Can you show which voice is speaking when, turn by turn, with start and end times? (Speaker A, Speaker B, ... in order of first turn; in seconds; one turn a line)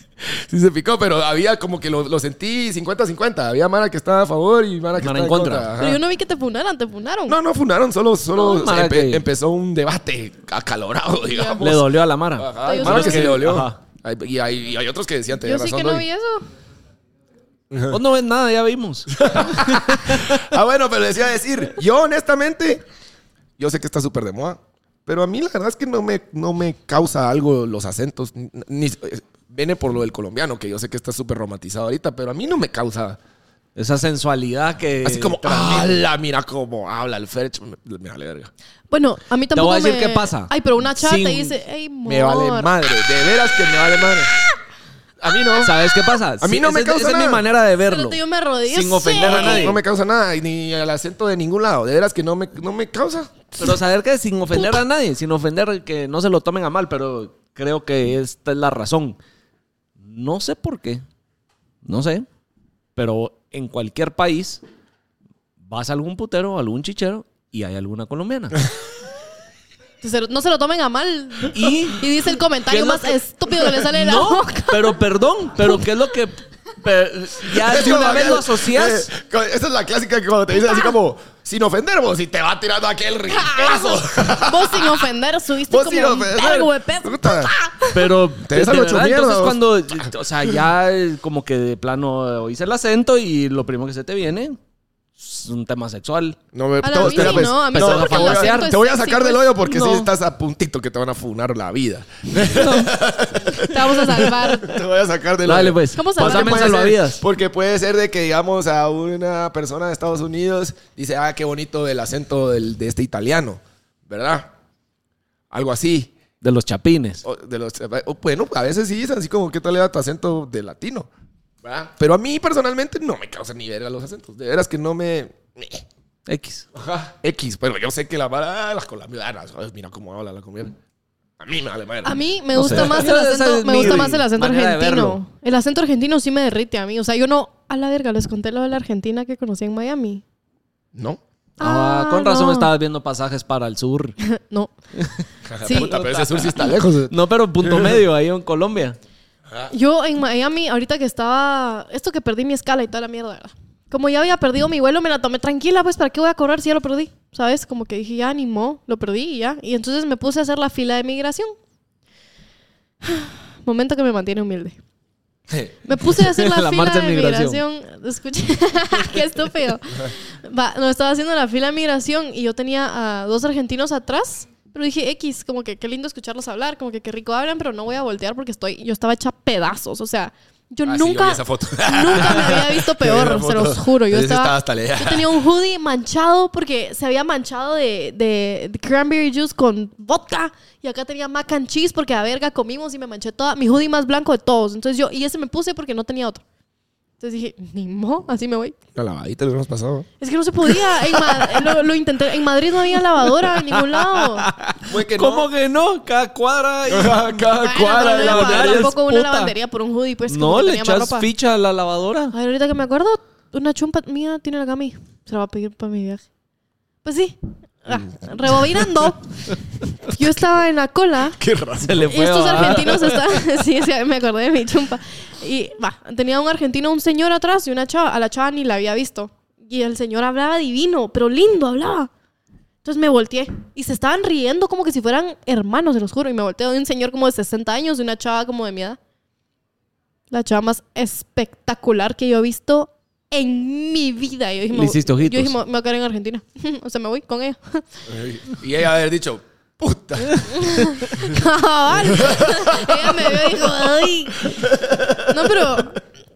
Speaker A: 0.2-6.0
Speaker B: 5.0-5.7
Speaker C: 5.8-7.4
Speaker A: 7.3-16.1
Speaker B: 8.3-9.2
Speaker C: 11.3-11.6
Speaker B: 11.6-13.8
Speaker C: 12.6-13.4
Speaker C: 15.4-16.5
Speaker A: 17.7-18.0
Speaker B: 17.9-20.4
Speaker A: 19.1-22.8
Speaker A: 23.6-33.2
Speaker B: 33.8-36.0
Speaker A: 35.0-38.5
Speaker C: 38.9-42.7
Speaker B: 39.5-41.5
Speaker A: 42.1-44.4
Speaker A: 45.2-45.8
Speaker B: 45.6-49.8
Speaker A: 46.4-47.4
Speaker C: 47.9-49.8
Speaker A: 49.1-53.3
Speaker B: 53.6-59.2
Speaker B: 60.0-61.0
Speaker B: 61.9-62.3
Speaker B: 63.0-64.6
Speaker B: 65.7-68.6
Speaker C: 70.0-75.0
Speaker B: 71.5-72.0
Speaker B: 72.7-79.1
Speaker A: 77.5-85.1
Speaker C: 83.3-88.1
Speaker A: 85.7-87.5
Speaker B: 87.9-94.6
Speaker A: 88.4-90.5
Speaker B: 95.2-96.4
Speaker A: 96.5-114.5
Speaker C: 96.8-100.0
Speaker B: 96.9-98.7
Speaker B: 102.5-102.9
Speaker C: 103.5-104.8
Speaker B: 105.5-107.2
Speaker C: 105.9-106.8
Speaker A: 115.5-116.1
Speaker B: 116.4-117.2
Speaker A: 117.2-121.1
Speaker A: 121.6-125.9
Speaker B: 126.3-126.7
Speaker A: 126.8-130.8
Speaker A: 131.4-133.1
Speaker C: 132.0-140.2
Speaker B: 132.6-135.2
Speaker A: 133.8-134.1
Speaker A: 140.9-141.2
Speaker C: 141.6-142.7
Speaker B: 141.6-144.2
Speaker C: 144.3-144.7
Speaker A: 145.5-148.0
Speaker C: 145.6-146.1
Speaker B: 145.7-149.0
Speaker C: 149.7-161.6
Speaker C: 163.0-164.8
Speaker A: 165.5-165.8
Speaker C: 165.9-196.4
Speaker B: 166.1-167.6
Speaker A: 180.8-185.4
Speaker C: 197.2-198.8
Speaker A: 198.9-200.1
Speaker C: 200.2-204.5
Speaker B: 203.6-209.5
Speaker A: 204.8-205.5
Speaker A: 206.9-209.0
Speaker C: 207.6-211.3
Speaker B: 210.3-212.3
Speaker C: 212.3-216.2
Speaker C: 217.0-221.4
Speaker A: 221.4-222.8
Speaker B: 221.8-223.2
Speaker C: 222.1-232.1
Speaker C: 232.8-239.0
Speaker C: 240.3-247.9
Speaker B: 244.7-245.6
Speaker A: 248.1-251.3
Speaker C: 250.5-254.6
Speaker A: 252.1-255.8
Speaker C: 255.3-256.0